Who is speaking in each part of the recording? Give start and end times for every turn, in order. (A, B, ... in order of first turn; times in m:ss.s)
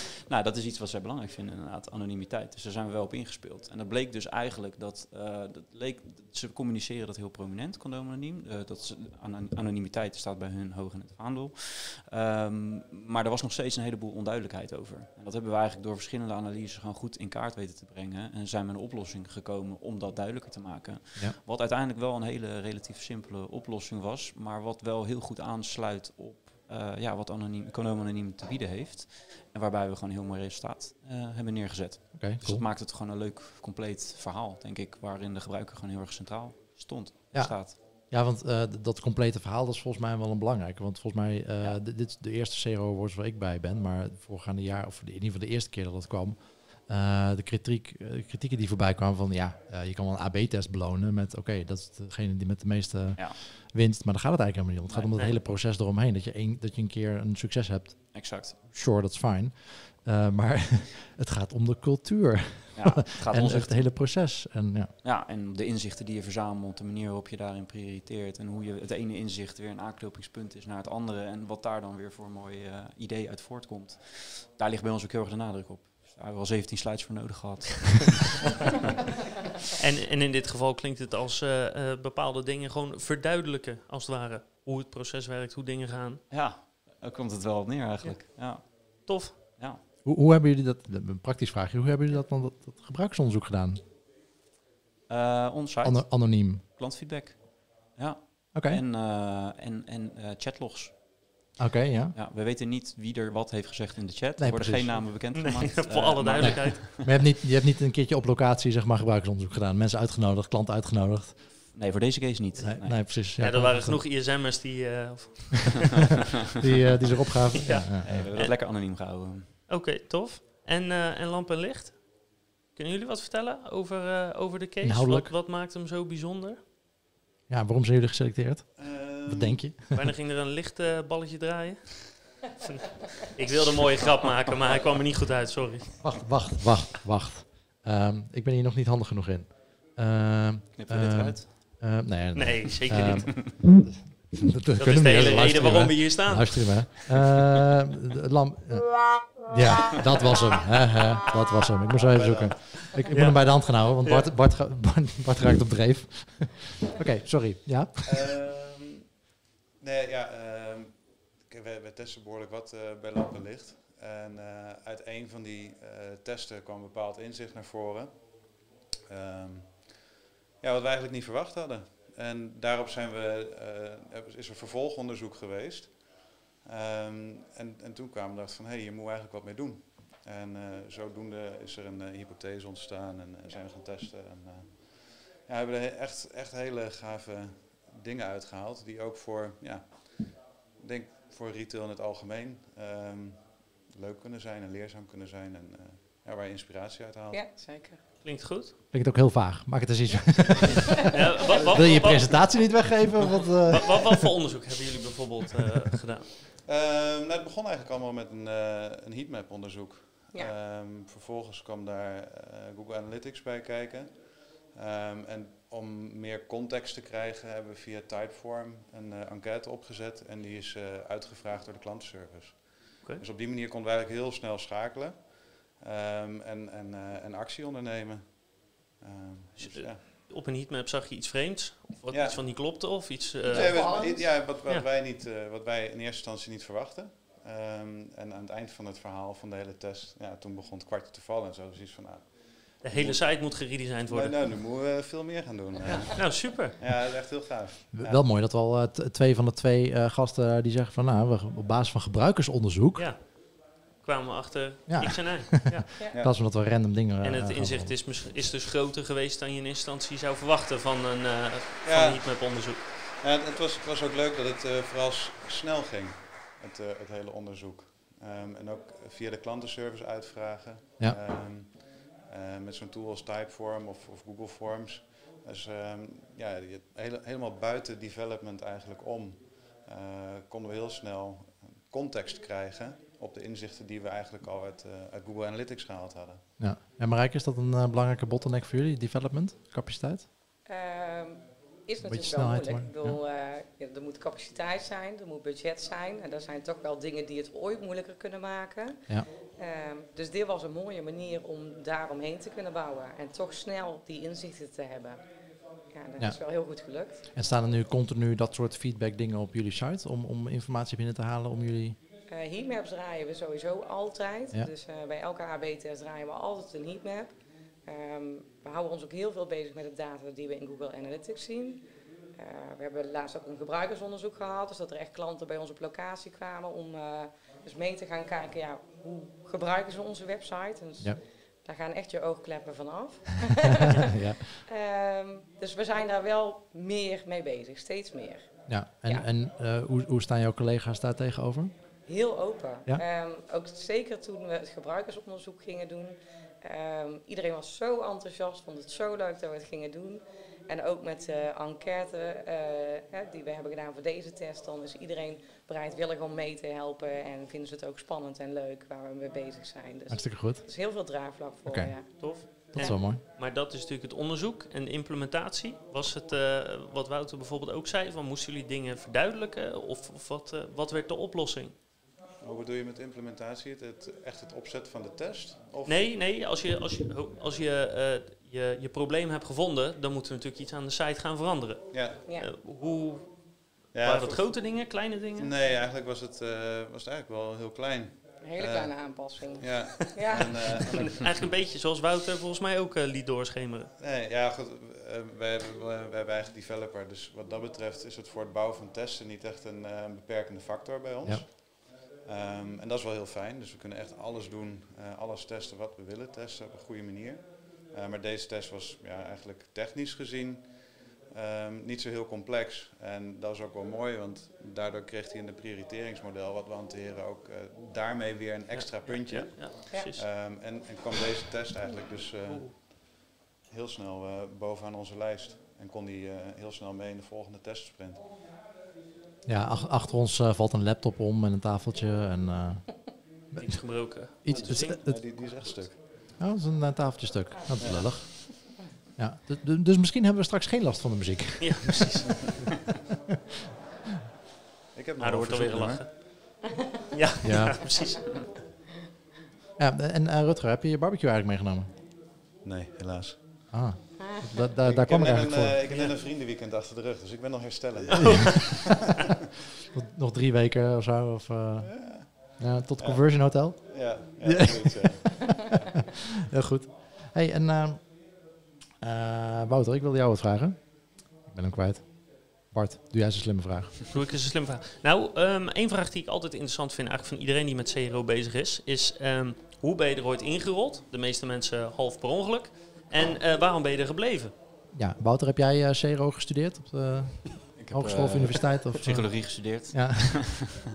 0:00.3-0:37.8 A
0:32.1-0:32.6 B
0:37.3-1:04.9 B
0:54.9-0:55.2 A
0:58.1-0:58.6 A
1:02.7-1:03.8 A
1:05.0-1:18.5 A
1:19.8-1:26.2 C
1:26.3-1:29.8 A
1:28.0-1:29.4 C
1:30.0-1:33.8 B
1:35.1-1:41.0 A
1:35.8-1:36.6 B
1:38.5-1:38.8 B
1:41.6-1:42.2 B
1:42.1-1:47.1 A
1:44.4-1:45.1 B
1:45.4-1:46.8 C
1:46.4-1:51.7 B
1:51.7-1:53.1 A
1:52.6-1:54.1 B
1:53.0-1:56.1 C
1:56.6-1:58.3 B
1:57.6-1:58.6 C
1:58.0-1:59.5 A
1:59.7-2:06.6 C
2:04.8-2:05.3 B
2:07.5-2:10.1 B
2:08.8-2:09.6 D
2:09.9-2:16.1 C
2:16.0-2:38.2 B
2:20.8-2:21.5 A
2:22.3-2:23.5 C
2:24.8-2:26.9 C
2:31.9-2:32.8 D
2:33.1-2:34.3 C
2:38.0-2:39.0 D
2:39.8-2:50.1 D
2:50.6-3:17.4 D
3:17.3-3:18.0 E
3:18.2-3:18.7 C
3:18.9-3:24.2 B
3:21.1-3:23.1 C
3:21.5-3:22.2 D
3:23.7-3:26.3 C
3:26.6-3:50.0 D
3:49.6-3:53.9 C
3:52.1-4:08.2 D
3:53.4-3:54.5 E
4:02.8-4:04.6 C
4:05.8-4:06.8 C
4:07.9-4:13.1 B
4:13.0-4:16.0 C
4:14.9-4:18.0 B
4:17.2-4:22.8 C
4:21.8-4:46.4 D
4:46.6-4:50.2 B
4:50.6-5:07.2 E
4:52.0-4:53.2 B
5:07.3-5:12.0 B
5:12.3-5:39.2 E
5:34.0-5:34.5 B
5:38.7-5:41.7 B
5:42.0-6:02.9 E
6:00.1-6:00.6 B
6:01.6-6:03.2 B
6:02.1-6:11.7 C
6:12.4-6:16.0 D
6:15.8-6:25.5 C
6:21.9-6:22.2 D
6:22.2-6:22.5 E
6:23.9-6:31.4 D
6:28.4-6:30.9 E
6:30.8-6:33.9 C
6:34.0-7:08.2 D
6:58.7-7:00.2 C
7:02.4-7:02.7 C
7:09.4-7:22.2 B
7:13.5-7:14.9 C
7:14.5-7:16.0 D
7:17.8-7:18.2 D
7:21.6-7:22.5 C
7:24.9-7:26.0 D
7:25.2-7:26.5 C
7:26.6-7:27.0 E
7:27.1-7:28.5 C
7:27.4-7:27.9 B
7:29.8-7:31.9 B
7:32.6-7:33.8 D
7:33.7-7:35.8 B
7:34.2-7:34.7 E
7:34.8-7:39.2 D
7:35.9-7:36.1 C
7:38.2-7:38.9 C
7:39.9-7:45.1 B
7:42.0-7:45.9 D
7:46.4-7:54.0 B
7:54.1-8:04.5 C
8:04.9-8:10.6 B
8:07.8-8:10.7 A